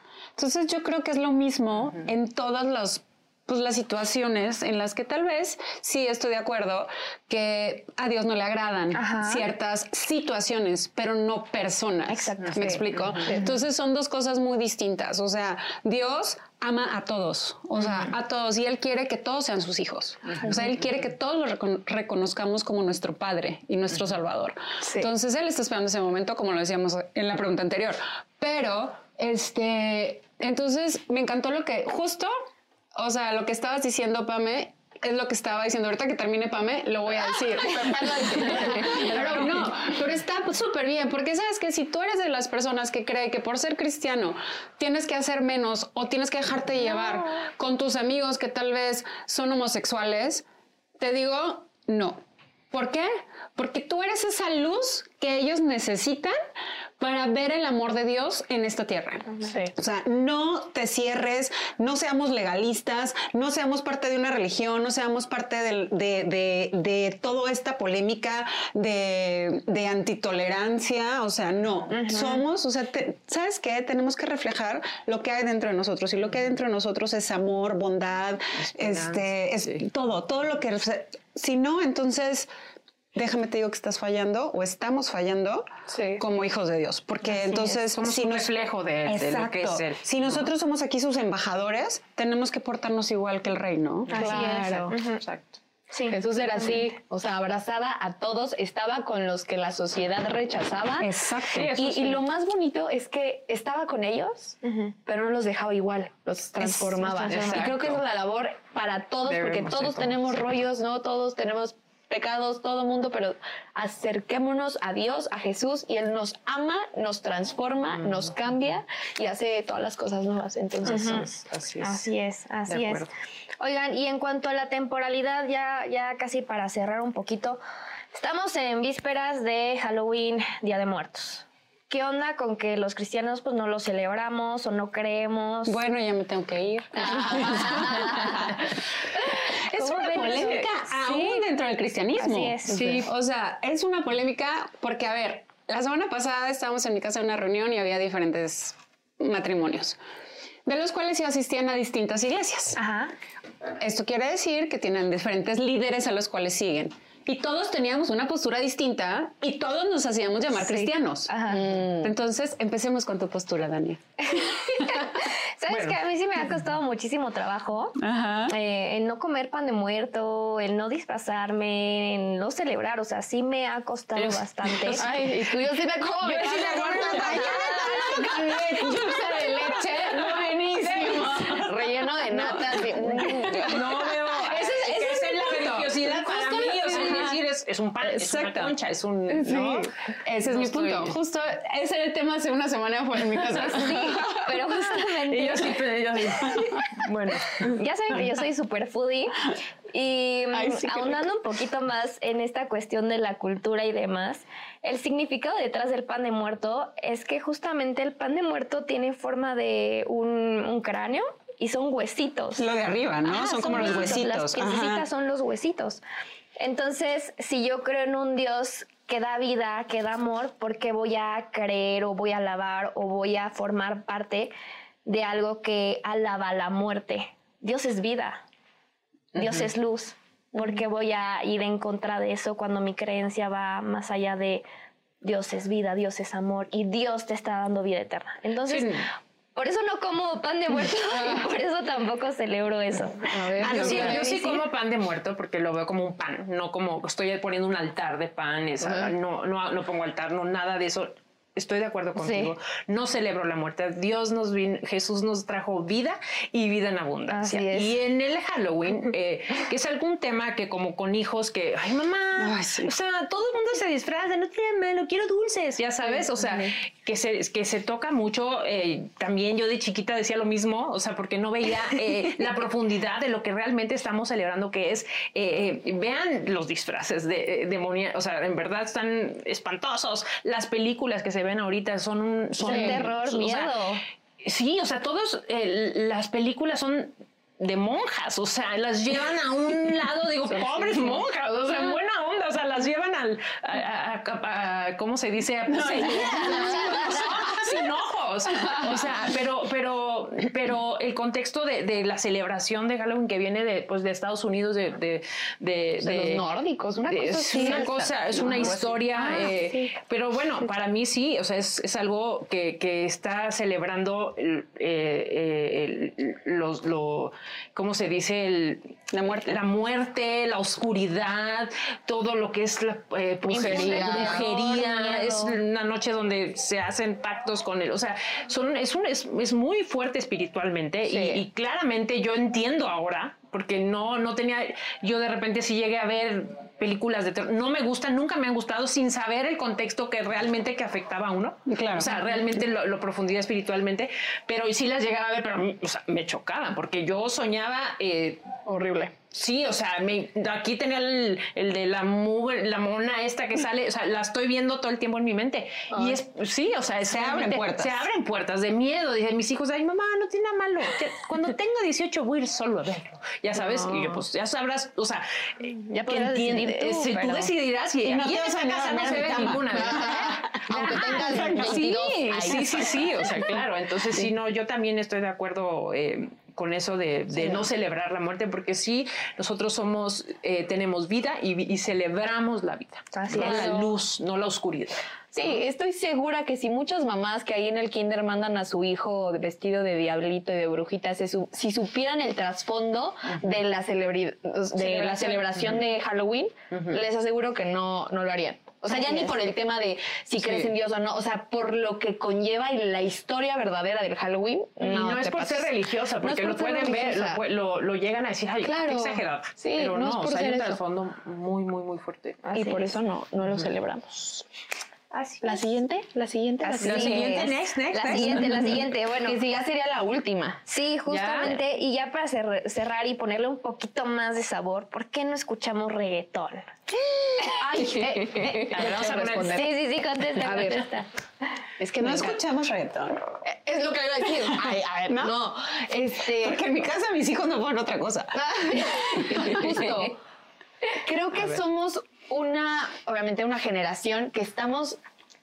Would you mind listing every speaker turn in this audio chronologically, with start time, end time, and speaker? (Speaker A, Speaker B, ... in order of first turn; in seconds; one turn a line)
Speaker A: 0.4-32.3
Speaker B: 8.9-9.5
Speaker B: 12.1-12.8
Speaker C: 12.9-13.3
Speaker A: 33.0-50.5
Speaker D: 37.6-39.4
Speaker A: 51.0-56.4
Speaker A: 57.0-82.5
Speaker D: 59.4-59.7
Speaker B: 71.9-72.4
Speaker C: 78.7-79.8
Speaker A: 83.1-88.5
Speaker D: 85.9-86.2
Speaker B: 87.3-87.8
Speaker C: 87.6-90.5
Speaker A: 89.0-94.1
Speaker C: 94.1-95.6
Speaker D: 94.1-95.0
Speaker B: 94.2-95.2
Speaker B: 95.9-96.9
Speaker D: 96.1-101.1
Speaker A: 101.0-101.7
Speaker C: 101.5-102.2
Speaker D: 101.7-121.3
Speaker B: 104.6-104.9
Speaker B: 107.0-107.7
Speaker C: 107.3-108.0
Speaker C: 109.3-110.2
Speaker C: 117.9-118.3
Speaker C: 120.8-122.1
Speaker B: 120.9-121.3
Speaker B: 121.8-123.1
Speaker C: 122.7-123.1
Speaker B: 123.6-127.6
Speaker B: 128.1-135.8
Speaker A: 135.7-138.7
Speaker B: 137.7-138.3
Speaker A: 139.7-150.0
Speaker B: 139.7-141.4
Speaker B: 142.2-142.8
Speaker C: 142.7-143.1
Speaker A: 150.7-152.8
Speaker B: 152.8-153.1
Speaker A: 153.8-164.9
Speaker B: 160.6-161.6
Speaker D: 161.5-162.1
Speaker B: 164.2-175.1
Speaker C: 165.7-166.0
Speaker A: 168.0-168.6
Speaker D: 174.2-185.1
Speaker A: 176.2-181.8
Speaker C: 176.7-177.4
Speaker B: 177.2-178.0
Speaker C: 181.1-181.5
Speaker C: 182.3-189.9
Speaker A: 182.7-187.4
Speaker D: 186.2-187.3
Speaker A: 188.0-188.8
Speaker D: 189.3-189.9
Speaker A: 190.2-194.5
Speaker C: 190.5-191.2
Speaker B: 193.6-195.8
Speaker C: 195.3-197.8
Speaker B: 197.7-199.4
Speaker B: 199.9-212.7
Speaker D: 200.5-201.2
Speaker A: 212.6-215.1
Speaker B: 213.2-216.0
Speaker B: 216.6-224.5
Speaker B: 225.1-228.4
Speaker B: 229.3-234.7
Speaker B: 235.2-239.0
Speaker B: 239.6-244.6
Speaker D: 243.3-244.3
Speaker A: 243.6-244.4
Speaker C: 243.6-283.8
Speaker D: 248.8-249.1
Speaker B: 252.2-252.5
Speaker B: 257.3-258.0
Speaker A: 262.4-262.9
Speaker B: 282.6-284.0
Speaker D: 282.6-283.0
Speaker C: 284.4-306.4
Speaker D: 290.5-291.2
Speaker A: 295.9-297.3
Speaker D: 296.2-296.9
Speaker D: 306.0-309.8
Speaker C: 307.0-348.4
Speaker A: 319.1-319.6
Speaker B: 323.5-325.6
Speaker D: 323.5-324.4
Speaker D: 331.1-331.4
Speaker A: 341.7-342.2
Speaker D: 348.6-349.1
Speaker C: 349.3-385.6
Speaker D: 355.9-356.2
Speaker A: 357.1-358.1
Speaker D: 363.6-364.2
Speaker B: 365.8-367.5
Speaker A: 368.0-371.9
Speaker D: 369.1-373.6
Speaker D: 377.4-377.7
Speaker B: 383.1-383.8
Speaker D: 383.3-383.9
Speaker D: 385.3-407.4
Speaker C: 393.3-393.6
Speaker C: 394.7-395.8
Speaker C: 396.7-397.0
Speaker B: 398.9-399.4
Speaker C: 400.4-400.7
Speaker C: 404.8-412.4
Speaker D: 408.6-410.8
Speaker B: 412.4-413.0
Speaker D: 412.5-414.4
Speaker C: 415.1-415.7
Speaker D: 415.4-417.6
Speaker B: 416.6-419.4
Speaker C: 416.8-418.8
Speaker D: 418.1-420.6
Speaker B: 420.7-426.8
Speaker C: 421.1-421.6
Speaker D: 427.4-429.7
Speaker B: 427.4-428.8
Speaker C: 428.7-429.7
Speaker B: 429.4-431.1
Speaker D: 430.4-430.9
Speaker D: 431.8-432.4
Speaker A: 432.0-433.2
Speaker D: 433.4-436.6
Speaker A: 435.1-435.4
Speaker A: 436.4-439.1
Speaker D: 438.4-440.2
Speaker D: 441.0-445.0